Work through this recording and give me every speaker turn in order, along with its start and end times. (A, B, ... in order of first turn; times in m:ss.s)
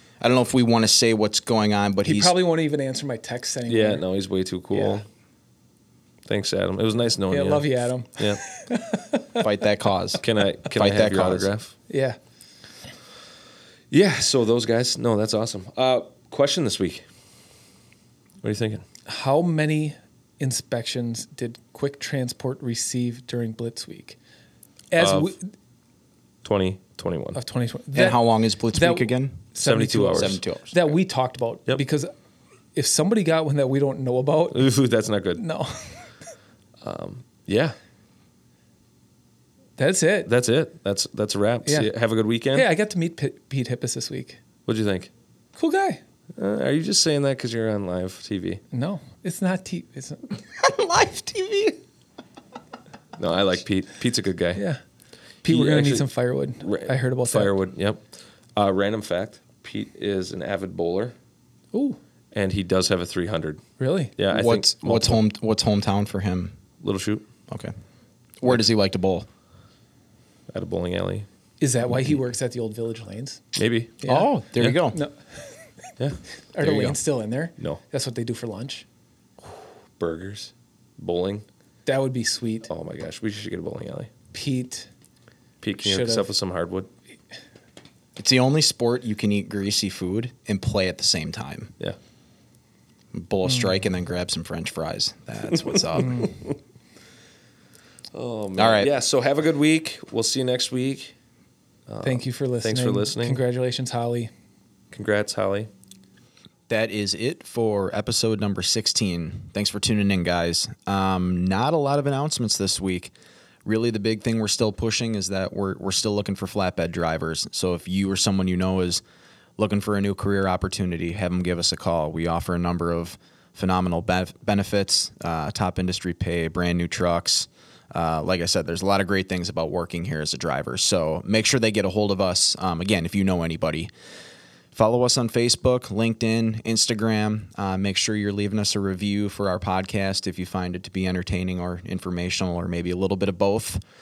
0:00.2-0:02.3 A
0:02.0-0:04.0 B
0:03.7-0:05.0 C
0:04.7-0:05.0 B
0:06.3-0:08.4 C
0:07.3-0:09.5 B
0:09.4-0:10.2 A
0:10.2-0:11.7 C
0:10.7-0:11.5 A
0:11.9-0:12.2 B
0:13.9-0:17.0 C
0:18.4-0:18.8 C
0:19.0-0:24.2 B
0:24.9-0:25.4 B
0:25.0-0:25.3 C
0:26.4-0:27.4 C
0:27.3-0:32.1 B
0:27.9-0:29.4 A
0:29.6-0:30.4 C
0:30.1-0:30.8 A
0:32.7-0:34.7 B
0:34.5-0:35.4 C
0:35.4-0:36.1 B
0:36.8-0:37.7 C
0:39.8-0:40.3 B
0:40.2-0:42.7 C
0:41.6-0:41.9 B
0:42.5-0:44.4 B
0:44.6-0:45.1 C
0:45.6-0:46.0 B
0:46.4-0:48.6 C
0:48.7-0:50.4 B
0:50.5-0:51.8 A
0:53.2-0:54.6 C
0:54.6-0:54.8 B
0:55.4-0:57.5 B
0:55.5-0:56.0 C
0:56.6-1:01.1 C
1:01.7-1:02.0 B
1:02.3-1:03.6 C
1:03.8-1:04.1 B
1:04.2-1:05.2 C
1:04.3-1:06.6 A
1:06.8-1:07.3 C
1:08.4-1:09.3 A
1:10.5-1:11.3 C
1:11.6-1:13.4 B
1:13.5-1:14.0 C
1:14.0-1:14.3 B
1:14.0-1:15.0 A
1:14.6-1:14.8 C
1:14.9-1:15.1 B
1:16.5-1:18.8 B
1:16.6-1:17.0 A
1:20.0-1:21.4 C
1:21.8-1:22.7 B
1:22.7-1:24.1 C
1:24.3-1:24.9 B
1:25.6-1:26.9 C
1:25.8-1:26.3 B
1:28.2-1:31.7 A
1:33.1-1:36.4 A
1:33.5-1:33.7 B
1:36.0-1:36.3 B
1:36.0-1:36.2 C
1:38.1-1:41.1 C
1:38.6-1:38.9 A
1:41.9-1:43.4 C
1:42.0-1:44.3 B
1:44.9-1:45.7 C
1:46.7-1:53.1 A
1:53.6-1:59.0 A
1:59.6-2:13.9 A
2:14.7-2:23.8 A